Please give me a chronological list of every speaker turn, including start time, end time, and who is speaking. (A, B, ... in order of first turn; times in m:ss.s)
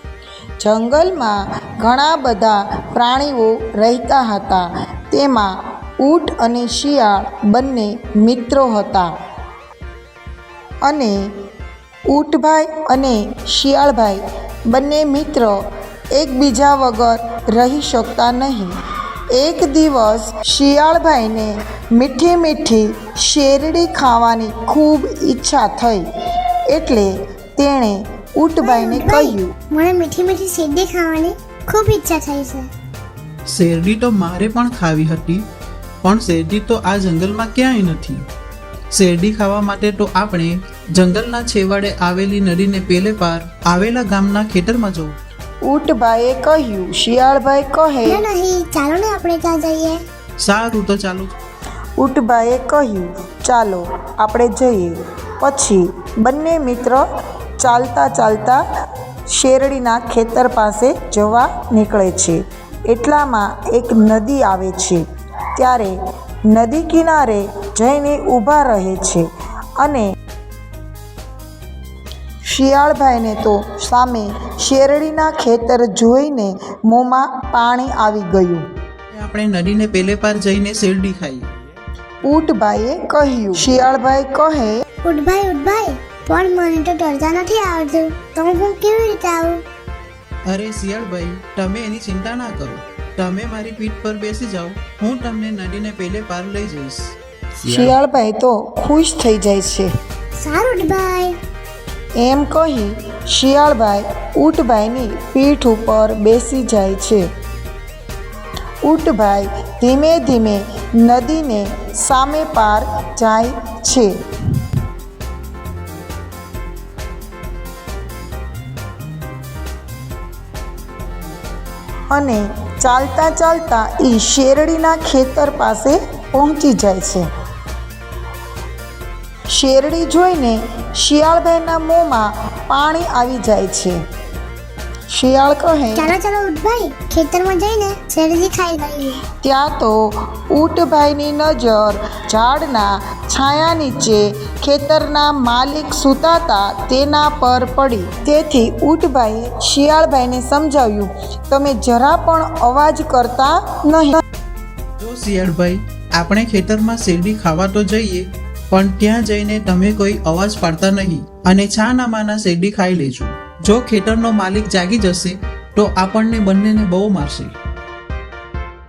0:00.6-0:09.1 A
0:10.8-0:11.3 A
0:12.1-0:15.6 A
0:16.1-0:18.7 A
0:19.3-0:26.0 A
0:26.7-0:29.5 A
0:28.6-0:32.7 B
0:33.5-0:35.4 C
0:36.0-0:38.2 C
0:38.9-0:45.2 C
0:45.6-0:48.2 A
0:48.0-0:50.0 B
0:50.4-0:51.3 C
0:52.0-0:57.0 A
0:57.6-0:58.6 A
0:59.3-1:05.0 A
1:05.6-1:05.9 A
1:06.5-1:09.2 A
1:12.5-1:18.6 A
1:19.1-1:21.5 C
1:22.2-1:24.8 A
1:25.0-1:29.6 B
1:30.5-1:37.2 C
1:37.6-1:39.9 A
1:40.4-1:41.3 B
1:42.2-1:47.2 A
1:48.8-1:54.1 A
2:02.1-2:07.3 A
2:09.5-2:14.0 A
2:15.1-2:16.1 A
2:16.0-2:19.2 B
2:19.4-2:34.2 A
2:35.0-2:47.5 C